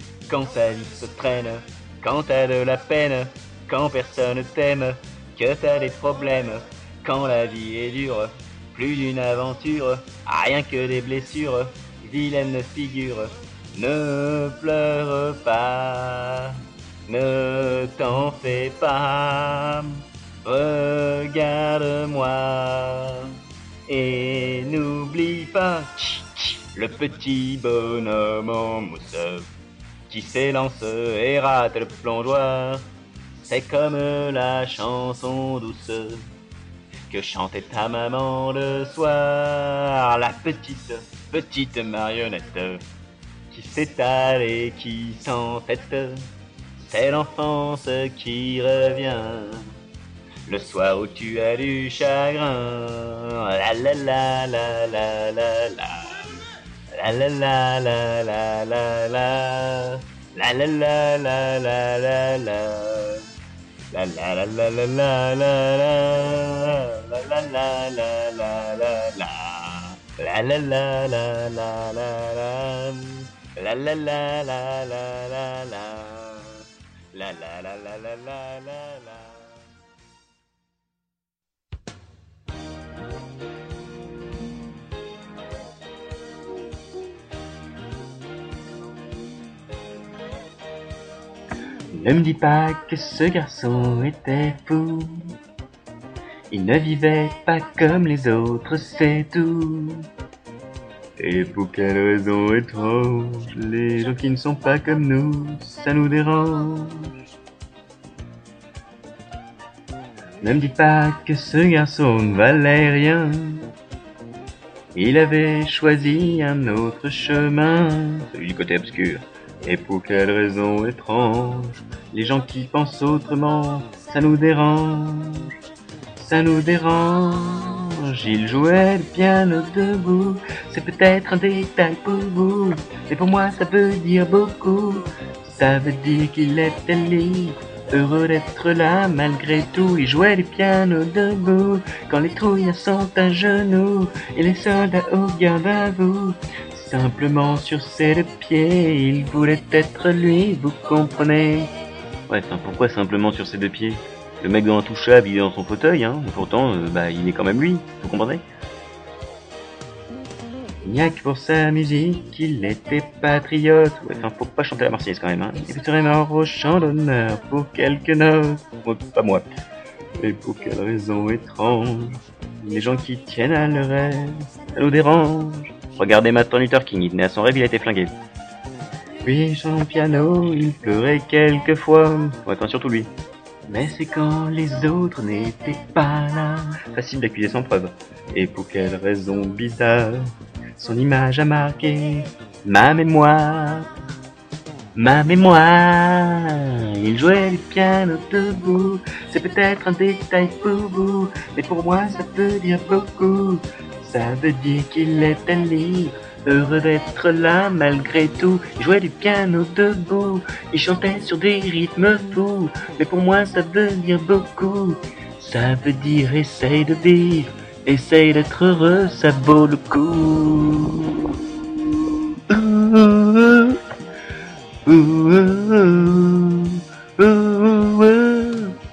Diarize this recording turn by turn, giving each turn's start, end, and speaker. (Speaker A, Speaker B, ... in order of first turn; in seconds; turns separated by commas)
Speaker A: 0.3-29.5, Speaker A: 30.1-32.9, Speaker A: 33.4-36.2, Speaker A: 37.1-42.8, Speaker A: 43.5-46.3, Speaker A: 46.9-49.7, Speaker A: 50.5-63.3, Speaker A: 63.9-79.6, Speaker A: 91.9-95.3, Speaker A: 96.5-100.1, Speaker A: 101.2-107.1, Speaker A: 110.4-113.7, Speaker A: 114.9-125.5, Speaker A: 126.2-151.7, Speaker A: 152.3-158.4, Speaker A: 160.8-169.4, Speaker A: 170.2-178.2, Speaker A: 179.2-183.1, Speaker A: 183.7-193.9, Speaker A: 194.9-221.9, Speaker A: 222.5-223.8, Speaker A: 224.9-228.8